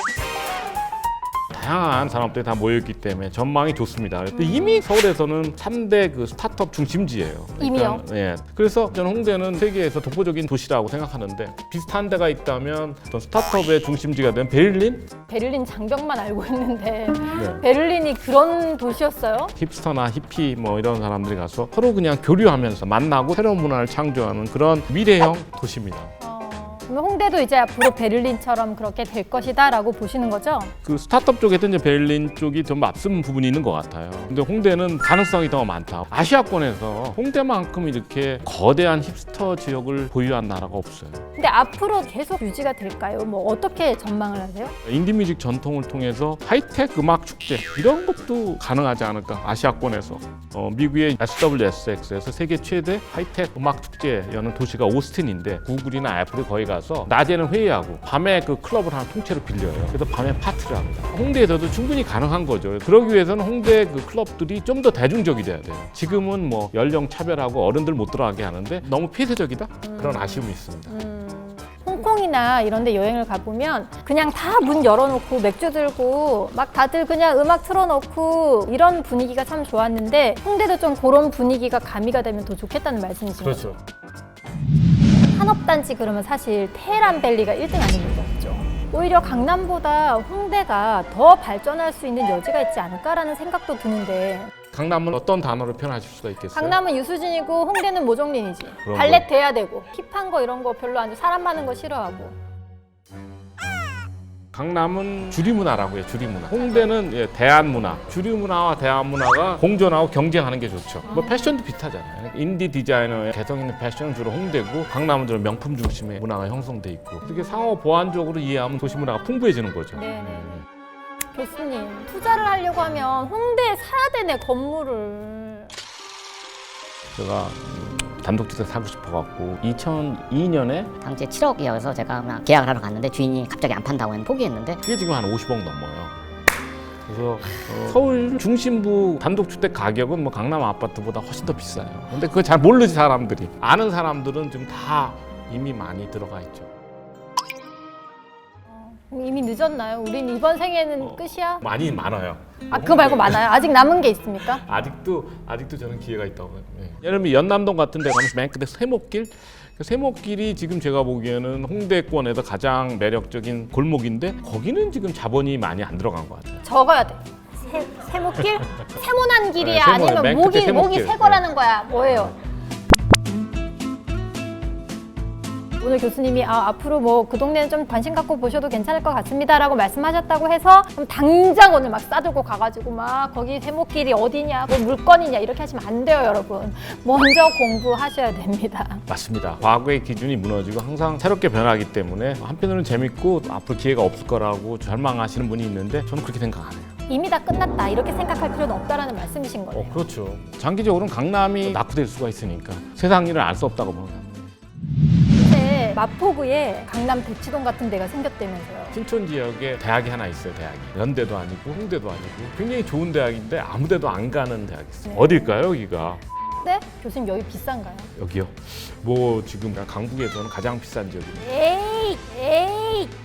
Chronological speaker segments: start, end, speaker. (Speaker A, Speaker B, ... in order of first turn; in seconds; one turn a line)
Speaker A: 1.5-15.1
Speaker B: 4.3-4.8
Speaker B: 7.6-8.0
Speaker B: 15.3-19.5
Speaker A: 17.3-17.6
Speaker A: 19.6-26.1
Speaker B: 26.2-30.7
Speaker A: 30.8-41.2
Speaker B: 41.4-44.7
Speaker A: 44.8-71.0
Speaker B: 69.8-83.7
Speaker A: 83.4-83.8
Speaker B: 85.3-94.5
Speaker A: 94.7-96.8
Speaker B: 96.5-102.3
Speaker A: 98.8-99.2
Speaker A: 104.5-120.6
Speaker B: 111.1-111.5
Speaker B: 119.9-120.6
Speaker B: 121.3-125.7
Speaker A: 127.1-130.9
Speaker C: 131.0-134.8
Speaker A: 134.8-136.2
Speaker A: 137.1-146.7
Speaker B: 148.7-151.6
Speaker A: 151.0-153.5
Speaker B: 152.7-154.6
Speaker A: 154.6-166.6
Speaker B: 166.6-172.4
Speaker A: 169.6-171.5
Speaker A: 172.0-172.3
Speaker B: 175.8-189.0
Speaker A: 189.1-196.9
Speaker B: 197.1-200.0
Speaker A: 199.7-204.5
Speaker B: 205.3-209.0
Speaker A: 208.9-216.2
Speaker B: 215.1-215.5
Speaker B: 216.6-218.1
Speaker A: 218.1-221.5
Speaker B: 221.4-223.1